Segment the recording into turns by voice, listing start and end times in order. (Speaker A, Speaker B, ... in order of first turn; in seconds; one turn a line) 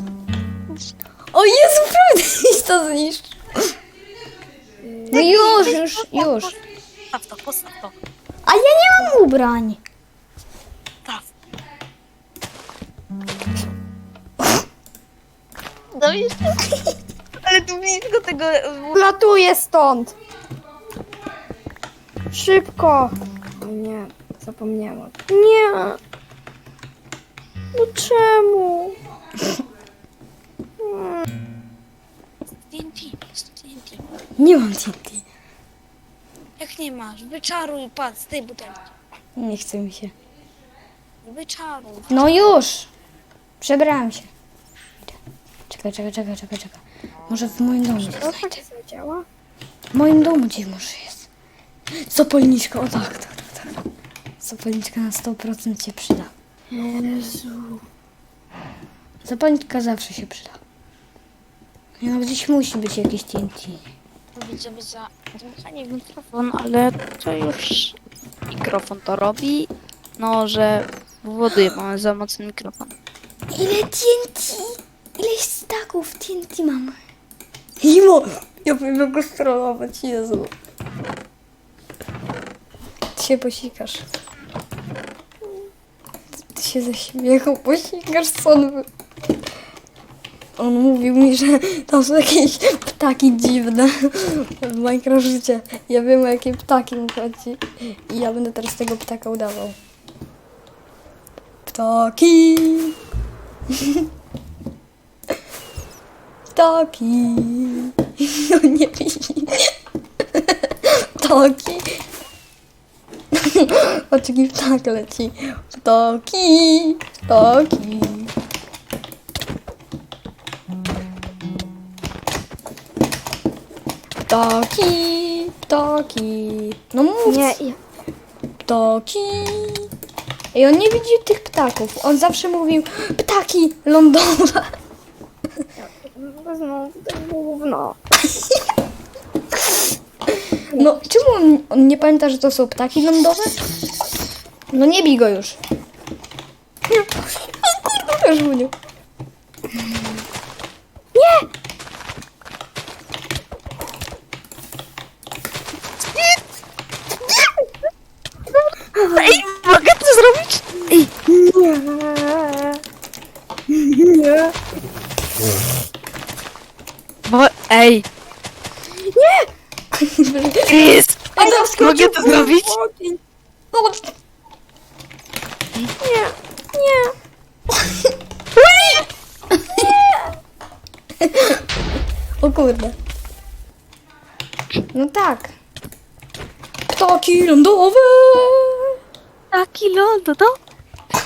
Speaker A: 1.3-3.8
Speaker B: 4.8-5.7
Speaker C: 5.1-6.5
Speaker A: 5.1-6.5
Speaker C: 7.1-7.9
Speaker A: 8.4-9.8
Speaker C: 15.9-16.7
Speaker C: 17.4-19.0
Speaker B: 18.9-20.1
Speaker B: 22.3-26.0
Speaker B: 27.7-29.0
Speaker B: 30.8-31.2
Speaker C: 32.7-34.0
Speaker A: 34.4-35.2
Speaker C: 36.6-38.9
Speaker A: 39.4-40.1
Speaker C: 41.2-42.1
Speaker A: 42.1-42.9
Speaker A: 43.6-44.3
Speaker A: 45.7-48.4
Speaker B: 48.1-49.2
Speaker A: 49.9-51.3
Speaker A: 52.0-53.8
Speaker A: 54.4-56.3
Speaker B: 56.7-57.8
Speaker A: 59.2-60.6
Speaker A: 62.0-63.8
Speaker C: 64.3-68.0
Speaker C: 68.5-72.9
Speaker A: 73.5-77.0
Speaker A: 77.8-80.5
Speaker A: 83.2-84.0
Speaker A: 86.4-88.9
Speaker A: 90.6-99.8
Speaker A: 101.7-103.0
Speaker A: 103.7-104.1
Speaker A: 106.5-112.0
Speaker A: 113.3-118.3
Speaker A: 124.2-127.6
Speaker B: 127.2-127.8
Speaker A: 128.6-129.9
Speaker A: 130.5-134.7
Speaker B: 135.8-138.0
Speaker A: 140.3-143.6
Speaker A: 144.7-145.6
Speaker A: 147.7-148.7
Speaker B: 151.1-151.5
Speaker C: 159.0-161.1
Speaker B: 161.2-162.8
Speaker B: 163.7-164.5
Speaker C: 167.2-168.0
Speaker B: 168.9-169.5
Speaker A: 170.0-171.5
Speaker C: 170.7-172.7
Speaker B: 171.3-173.2
Speaker A: 173.7-174.1
Speaker B: 176.0-177.1
Speaker B: 179.7-180.3
Speaker A: 181.2-181.6
Speaker A: 182.4-182.9
Speaker A: 184.9-185.5
Speaker A: 186.9-189.0
Speaker C: 189.5-190.6